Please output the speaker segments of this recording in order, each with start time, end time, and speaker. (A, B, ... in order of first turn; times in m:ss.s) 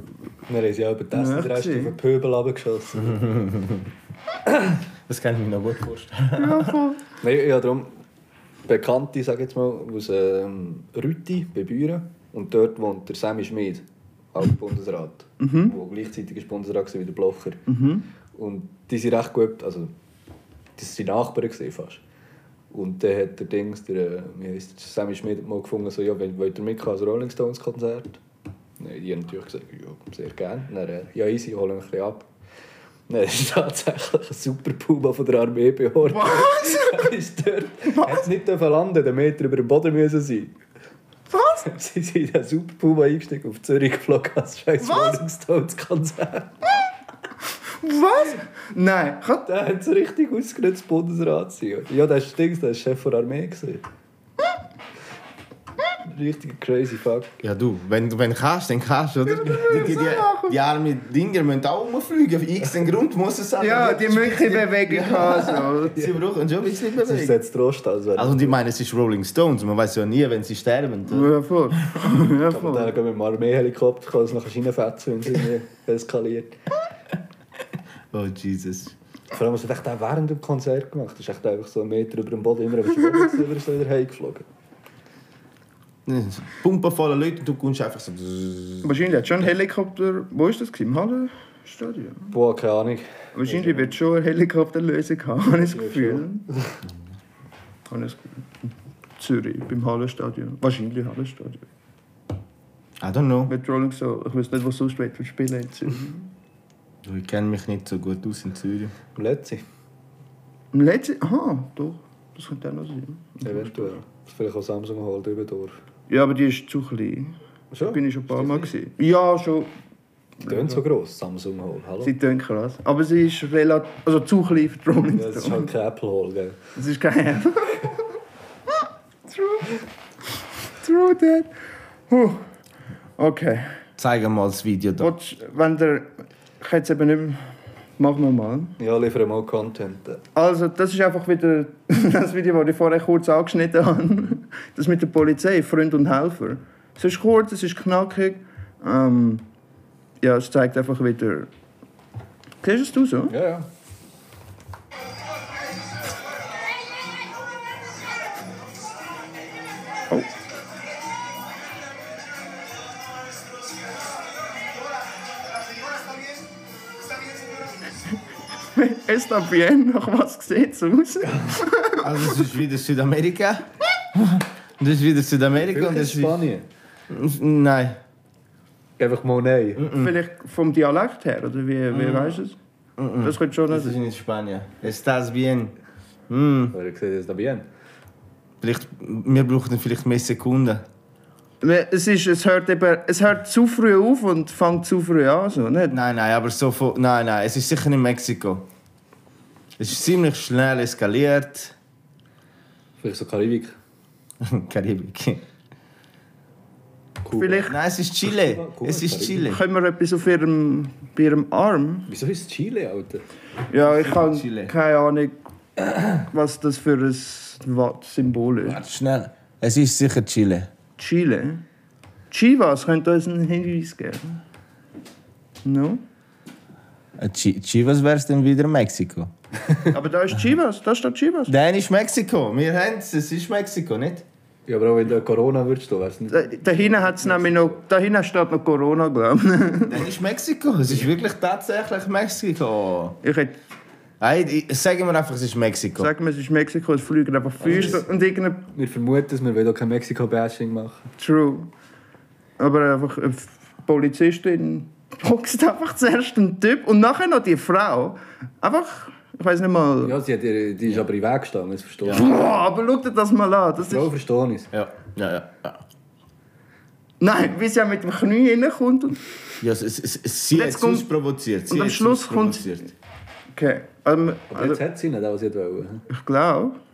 0:00.5-0:03.2 A
0:01.1-0:02.0 B
0:03.0-0:03.9 C
0:05.1-0:06.8 C
0:06.4-0:07.0 B
0:07.2-0:07.9 A
0:08.7-0:17.6 A
0:15.4-0:15.7 B
0:17.7-0:18.0 B
0:18.4-0:19.9 A
0:20.8-0:22.0 A
0:22.7-0:28.2 A
0:28.8-0:32.3 A
0:33.1-0:40.5 A
0:36.0-0:37.1 B
0:37.8-0:38.3 B
0:41.3-0:41.7 B
0:41.7-0:46.6 A
0:44.8-0:45.2 B
0:47.8-0:49.5 B
0:49.5-0:53.8 A
0:56.1-0:57.4 A
0:57.4-1:07.4 C
0:59.3-1:00.6 B
1:03.6-1:06.0 B
1:07.0-1:08.6 A
1:08.2-1:11.3 C
1:11.1-1:12.9 B
1:12.5-1:16.5 A
1:18.1-1:18.9 C
1:19.3-1:24.4 A
1:26.1-1:28.9 C
1:28.8-1:32.3 B
1:32.3-1:33.9 A
1:33.4-1:36.4 B
1:35.6-1:36.7 A
1:37.9-1:41.7 B
1:43.0-1:43.5 C
1:43.5-1:46.3 B
1:47.0-1:49.0 C
1:49.2-1:49.6 A
1:50.7-1:53.9 B
1:53.5-1:55.8 A
1:56.1-1:59.7 B
1:57.7-1:58.7 A
2:00.4-2:00.8 B
2:00.5-2:02.1 A
2:02.0-2:05.7 B
2:05.1-2:06.6 A
2:06.8-2:08.0 B
2:09.3-2:09.7 B
2:10.8-2:11.5 B
2:12.1-2:12.4 B
2:13.2-2:13.8 B
2:14.0-2:15.1 C
2:15.0-2:16.1 B
2:16.6-2:18.8 B
2:18.8-2:20.2 A
2:20.4-2:29.4 B
2:30.2-2:31.5 B
2:32.6-2:33.3 B
2:33.3-2:33.7 A
2:48.7-2:52.1 B
2:51.2-2:51.6 A
2:52.0-2:56.5 C
2:55.6-2:56.7 A
2:57.1-2:58.0 C
2:59.0-2:59.8 A
2:59.8-3:00.2 C
3:00.0-3:02.6 B
3:01.9-3:02.4 C
3:03.0-3:05.7 C
3:03.2-3:04.0 B
3:06.3-3:06.8 C
3:06.7-3:07.6 A
3:08.6-3:10.9 C
3:11.6-3:16.0 B
3:15.9-3:18.7 C
3:19.8-3:21.8 C
3:23.0-3:23.8 A
3:24.4-3:25.4 C
3:27.2-3:29.6 A
3:27.3-3:27.7 B
3:27.7-3:29.6 C
3:29.5-3:32.1 B
3:32.1-3:33.2 A
3:33.7-3:35.3 B
3:33.8-3:34.7 C
3:36.3-3:38.8 B
3:38.7-3:40.7 C
3:41.0-3:41.6 B
3:42.3-3:44.4 B
3:45.6-3:46.0 B
3:47.2-3:49.3 C
3:49.9-3:51.5 B
3:51.5-3:54.3 C
3:54.7-3:57.8 A
3:56.3-4:00.0 B
3:59.9-4:03.2 C
4:03.2-4:03.6 B
4:04.2-4:06.1 C
4:06.0-4:08.6 B
4:07.6-4:08.0 A
4:08.7-4:11.1 A
4:11.2-4:11.7 B
4:12.6-4:20.2 B
4:20.0-4:22.2 A
4:22.1-4:24.1 B
4:23.8-4:24.7 A
4:24.7-4:25.8 C
4:27.2-4:29.2 B
4:29.6-4:32.9 C
4:30.6-4:31.1 B
4:31.7-4:32.9 B
4:33.6-4:34.8 B
4:34.5-4:36.1 A
4:36.1-4:36.8 B